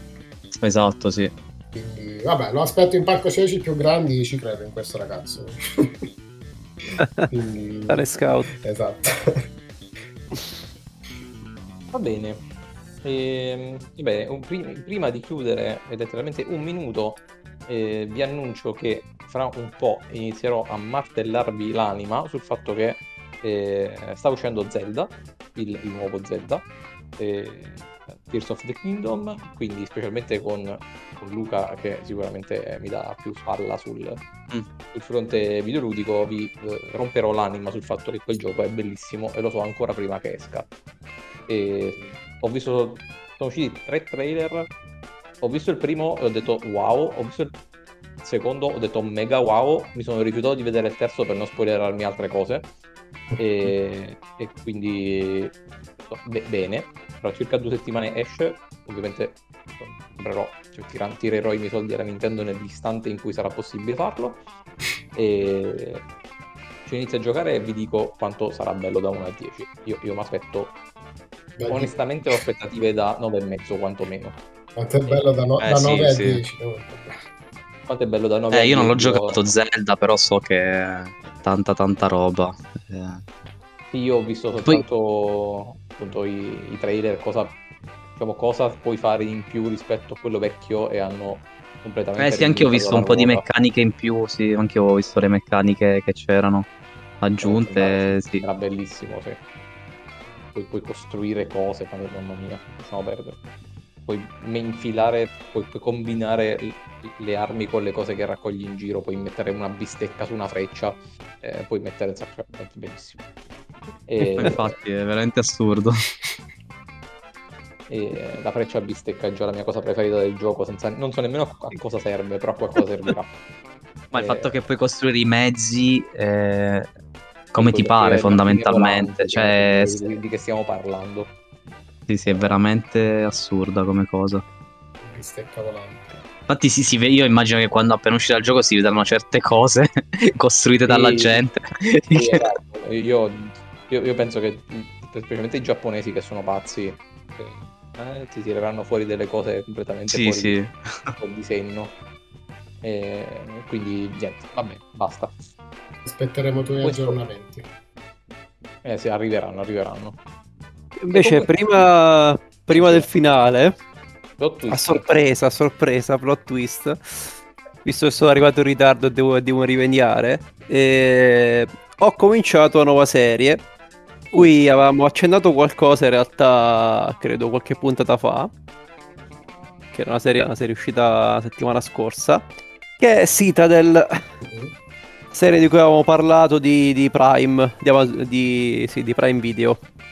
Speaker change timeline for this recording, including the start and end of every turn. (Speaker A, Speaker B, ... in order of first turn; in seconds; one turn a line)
Speaker A: 0.6-1.3
Speaker B: 1.7-6.0
Speaker B: 6.8-9.4
Speaker C: 7.0-7.3
Speaker C: 7.9-8.5
Speaker D: 11.9-12.4
Speaker D: 13.0-26.6
Speaker D: 27.2-34.2
Speaker D: 34.9-40.7
Speaker D: 41.5-44.7
Speaker D: 45.4-47.5
Speaker D: 48.2-52.6
Speaker B: 53.3-53.7
Speaker D: 53.4-55.5
Speaker D: 56.1-64.4
Speaker D: 65.1-66.0
Speaker D: 66.8-70.8
Speaker B: 71.6-72.4
Speaker D: 71.7-74.4
Speaker B: 74.8-77.2
Speaker A: 75.6-76.4
Speaker D: 77.9-79.4
Speaker A: 78.5-83.2
Speaker D: 83.9-87.6
Speaker D: 88.2-93.5
Speaker A: 92.2-96.7
Speaker A: 97.2-98.4
Speaker D: 97.4-99.4
Speaker D: 100.5-103.4
Speaker D: 104.0-113.2
Speaker D: 114.0-114.7
Speaker A: 114.4-116.0
Speaker D: 117.9-123.3
Speaker A: 124.1-126.9
Speaker D: 124.1-124.5
Speaker A: 127.5-130.2
Speaker D: 127.6-131.3
Speaker A: 132.1-134.4
Speaker B: 135.0-136.2
Speaker A: 136.5-142.4
Speaker D: 140.9-141.4
Speaker D: 142.1-150.6
Speaker A: 150.1-151.1
Speaker D: 151.2-151.9
Speaker D: 152.8-155.4
Speaker B: 156.0-157.7
Speaker D: 156.8-157.2
Speaker D: 158.8-160.2
Speaker C: 161.0-163.8
Speaker D: 161.1-161.5
Speaker D: 162.7-163.1
Speaker D: 164.4-165.0
Speaker C: 164.7-173.6
Speaker C: 174.3-178.5
Speaker C: 179.9-182.5
Speaker C: 183.0-184.2
Speaker C: 185.3-189.8